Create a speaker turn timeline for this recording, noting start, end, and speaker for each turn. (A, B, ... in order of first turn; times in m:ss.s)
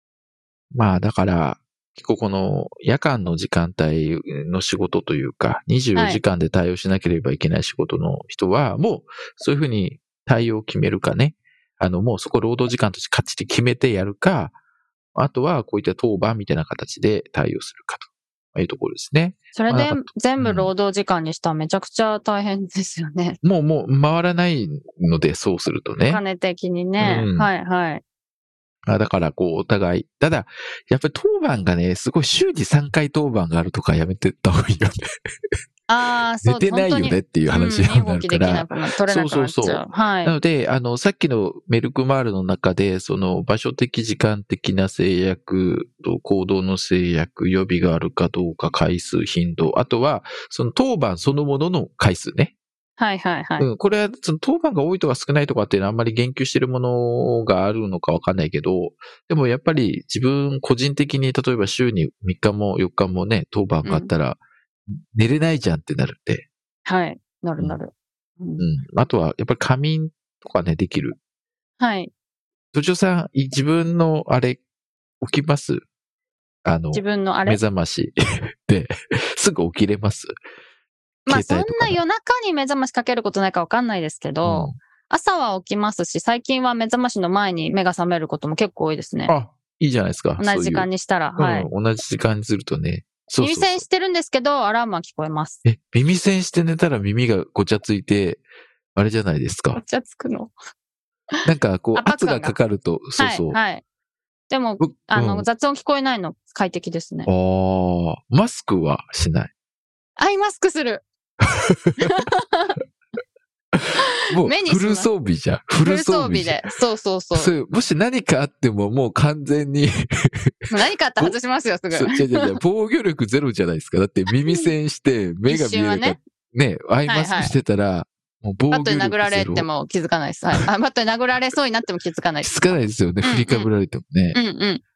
0:00.7-0:14.6 A
0:06.0-0:06.2 B
0:15.1-0:20.7 A
0:19.5-0:23.4 B
0:23.4-0:26.2 A
0:26.0-0:28.0 B
0:27.0-0:27.5 A
0:28.8-0:35.0 A
0:35.9-0:40.4 B
0:36.4-0:52.5 A
0:53.0-0:53.7 B
0:53.6-1:06.5 A
1:03.8-1:04.1 B
1:06.8-1:08.6 B
1:08.6-1:11.2 A
1:11.8-1:12.1 B
1:12.7-1:14.6 A
1:15.2-1:15.8 A
1:16.6-1:20.3 A
1:16.9-1:17.6 B
1:21.3-1:22.0 A
1:21.3-1:29.3 B
1:24.4-1:24.8 A
1:29.3-1:33.8 A
1:30.4-1:31.7 B
1:33.4-1:35.6 B
1:35.6-1:38.4 A
1:38.9-1:39.8 A
1:39.7-1:40.5 B
1:41.3-1:42.6 B
1:41.4-1:43.6 A
1:43.2-1:43.8 B
1:44.5-1:47.3 B
1:44.8-1:45.4 A
1:47.3-1:49.5 A
1:50.2-1:51.0 B
1:51.4-1:52.1 A
1:52.0-1:52.8 B
1:53.7-1:56.6 A
1:54.4-1:55.1 B
1:55.8-1:57.5 B
1:57.3-2:01.4 A
2:00.7-2:02.4 B
2:01.9-2:09.7 A
2:04.3-2:04.7 B
2:05.5-2:06.2 B
2:07.1-2:07.5 B
2:08.7-2:13.7 B
2:12.4-2:14.4 A
2:14.3-2:14.8 B